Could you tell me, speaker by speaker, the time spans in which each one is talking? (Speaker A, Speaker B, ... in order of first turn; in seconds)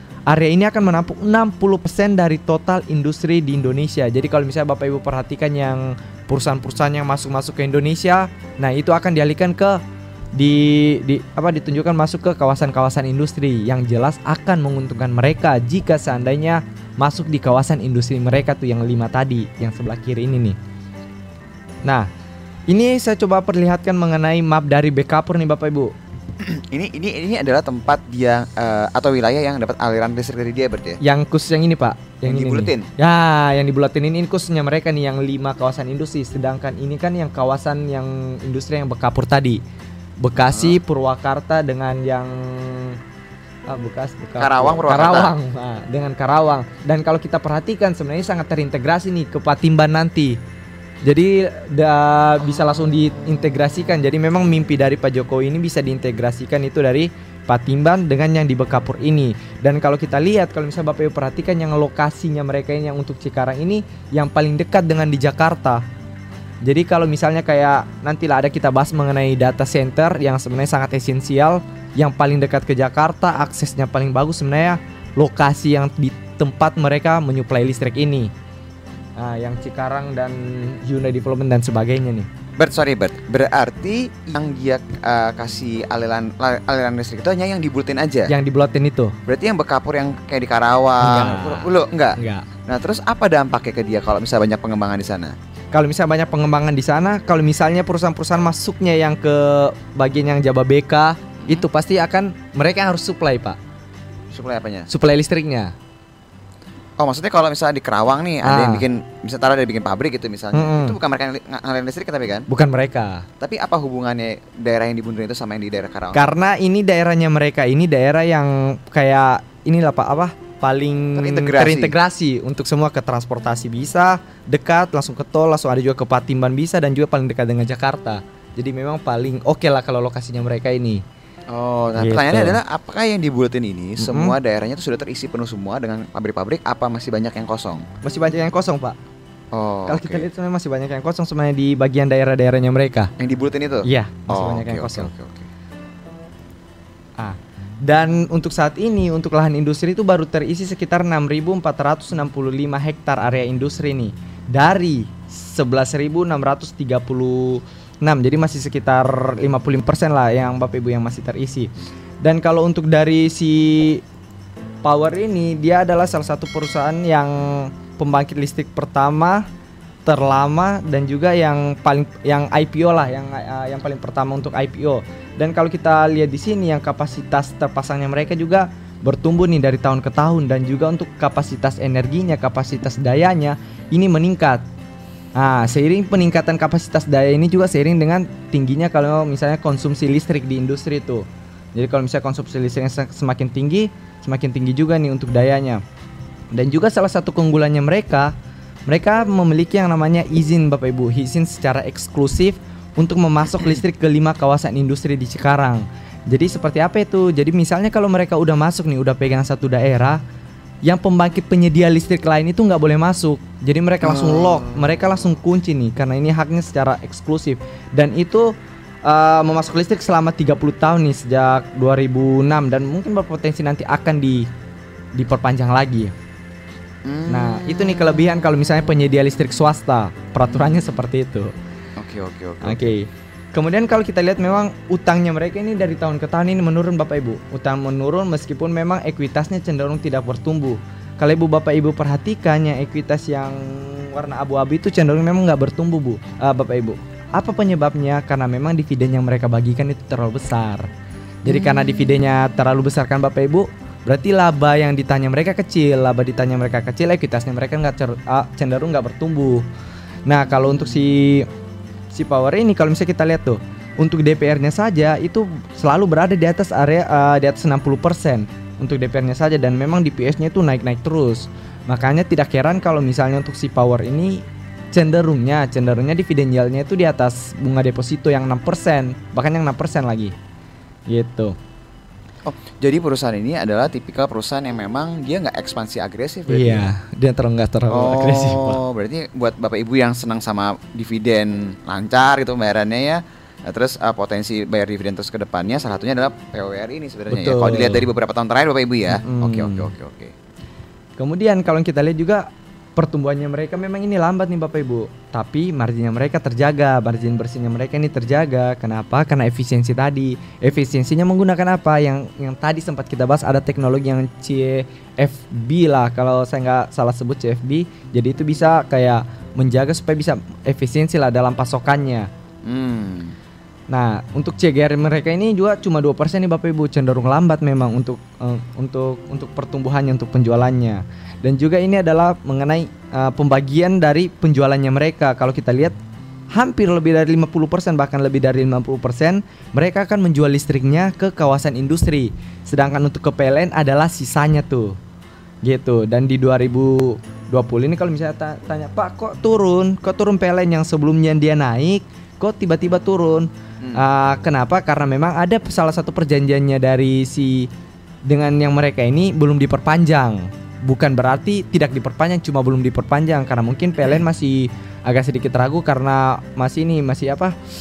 Speaker A: 0.3-9.8, 10.3-20.6, 22.7-25.9, 31.0-39.6, 40.2-43.0, 43.7-50.4, 51.0-65.8, 66.6-78.3, 79.2-82.3, 88.3-89.2, 91.0-92.5, 95.7-103.6, 104.9-105.7, 108.4-108.8, 110.5-111.0, 112.5-113.3, 116.1-131.0, 132.0-132.6, 134.0-134.3, 138.0-139.0, 139.9-143.1, 143.8-145.1, 147.2-164.0, 164.8-169.4, 170.0-184.6, 185.3-195.8, 196.5-198.3, 198.9-210.2, 210.8-218.5, 219.0-224.5, 225.1-226.1, 227.3-231.5, 232.6-250.9, 251.4-259.6, 260.2-261.5, 262.1-280.3, 281.1-281.6, 286.5-288.8, 297.3-298.1, 299.1-299.9, 301.2-322.3, 323.9-335.9, 336.5-345.0, 345.6-357.7, 358.2-367.5
Speaker B: 26.4-31.0, 32.2-32.9, 40.4-40.8, 44.4-45.3, 82.6-88.3, 89.2-95.3, 104.3-104.9, 107.0-112.5, 113.4-116.3, 121.2-121.9, 131.5-137.8, 139.5-140.2, 143.2-145.5, 214.0-215.2, 227.0-228.4, 230.5-231.0, 232.0-232.9, 251.5-252.2, 282.4-286.9, 287.9-300.3, 322.6-323.4